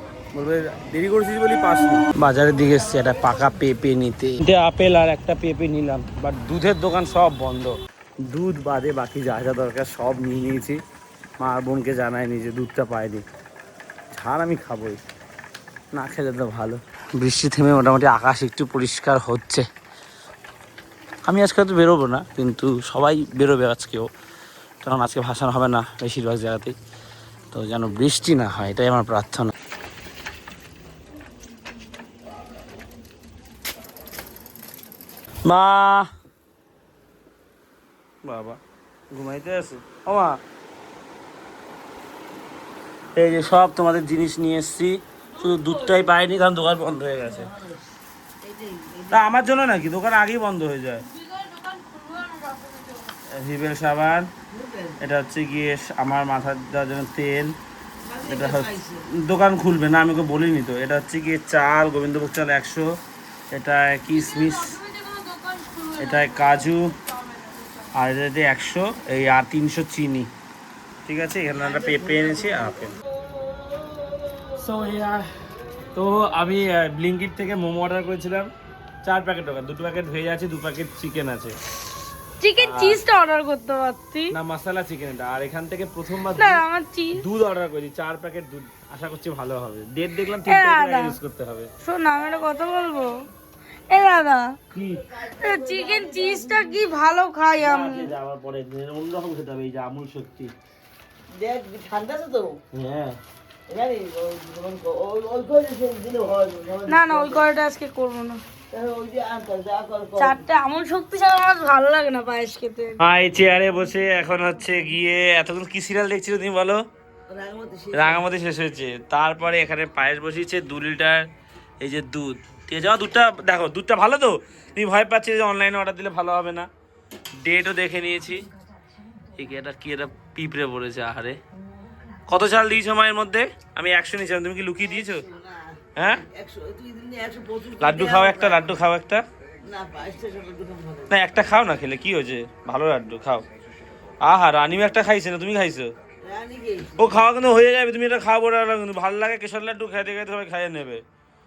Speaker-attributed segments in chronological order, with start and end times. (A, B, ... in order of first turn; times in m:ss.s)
0:00.3-0:10.8 A
0:11.4-0:13.2 A
0:14.1-0:15.0 A
0:15.9-0:19.6 A
0:21.2-0:24.1 A
0:24.8-0:26.7 A
0:27.5-0:29.5 A
0:35.4-0:36.1 A
0:38.2-0:38.6 A
0:39.1-0:40.4 A
0:43.2-0:47.5 A
0:48.4-0:49.2 B
0:49.1-0:51.1 A
0:51.2-0:53.0 C
0:53.2-0:54.3 A
0:54.5-0:55.0 B
0:55.0-0:57.5 A
0:58.1-0:59.0 B
0:58.2-1:02.9 A
1:03.5-1:04.8 A
1:04.3-1:06.2 C
1:06.0-1:06.9 A
1:07.9-1:10.3 A
1:11.0-1:12.9 A
1:14.5-1:15.3 A
1:15.9-1:18.5 A
1:19.0-1:21.5 A
1:22.4-1:24.3 C
1:22.6-1:23.0 A
1:24.3-1:26.6 A
1:26.4-1:27.2 C
1:27.1-1:31.7 A
1:30.4-1:31.2 C
1:31.8-1:33.3 C
1:33.9-1:34.6 C
1:34.7-1:35.1 A
1:35.1-1:36.8 B
1:35.2-1:38.1 C
1:37.6-1:40.5 A
1:41.3-1:42.6 B
1:42.7-1:43.2 A
1:43.7-1:47.4 B
1:46.9-1:48.4 C
1:48.7-1:50.4 B
1:50.2-1:53.0 C
1:53.0-1:56.8 A
1:57.3-1:58.2 B
1:57.9-2:01.3 A
2:01.8-2:06.7 A
2:07.4-2:08.4 A
2:09.3-2:11.4 A
2:12.3-2:15.2 A
2:15.1-2:18.7 B
2:16.0-2:16.2 A
2:17.8-2:19.2 A
2:19.6-2:21.1 B
2:21.1-2:23.4 A
2:24.2-2:25.9 A
2:26.2-2:27.2 B
2:26.9-2:31.0 A